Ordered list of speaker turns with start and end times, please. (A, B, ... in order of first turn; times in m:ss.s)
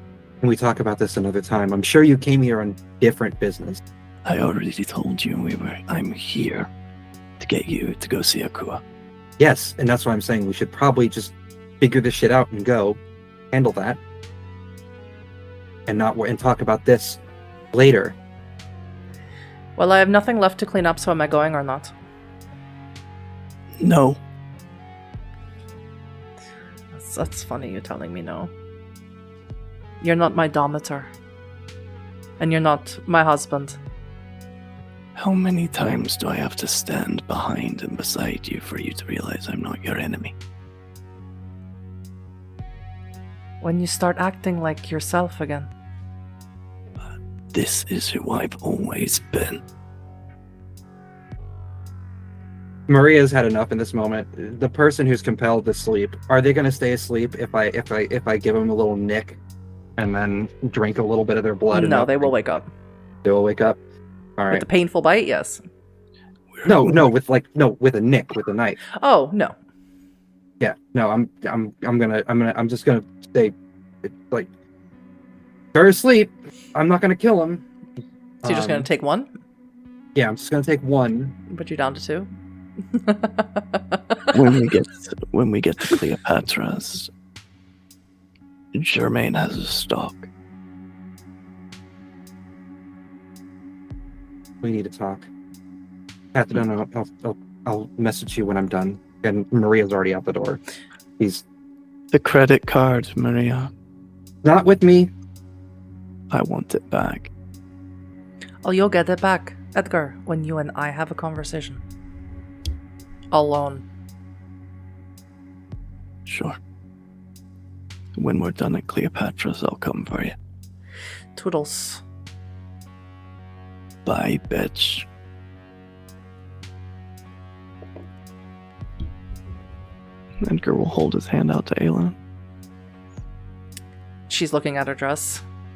0:00.4-0:03.8 A
0:04.2-0:06.7 B
0:07.4-0:08.8 B
0:09.4-0:13.0 A
0:13.5-0:14.0 A
0:15.9-0:17.2 A
0:17.7-0:18.2 A
0:19.8-0:21.9 C
0:23.8-0:24.2 B
0:26.9-0:28.5 C
0:30.0-0:31.1 C
0:32.4-0:33.8 C
0:35.2-0:40.4 B
0:43.6-0:45.7 C
0:47.5-0:49.6 B
0:52.9-0:59.4 A
1:00.0-1:02.3 A
1:01.7-1:02.7 C
1:03.2-1:03.8 A
1:04.4-1:04.6 A
1:04.5-1:05.6 C
1:06.5-1:07.1 B
1:06.6-1:08.8 A
1:08.9-1:09.5 C
1:10.6-1:14.5 A
1:15.7-1:17.6 A
1:18.4-1:18.9 A
1:18.4-1:19.3 C
1:20.2-1:21.4 A
1:21.5-1:22.3 C
1:22.9-1:24.3 C
1:24.3-1:27.1 B
1:28.7-1:30.3 B
1:34.6-1:35.3 A
1:36.3-1:40.6 A
1:41.2-1:41.4 A
1:42.1-1:43.7 B
1:44.4-1:45.1 A
1:46.3-1:47.3 B
1:48.6-1:51.8 C
1:53.3-1:53.8 C
1:56.3-1:56.6 B
1:58.2-2:00.4 B
2:01.4-2:02.0 C
2:04.1-2:05.1 B
2:10.4-2:12.2 B
2:14.3-2:15.4 C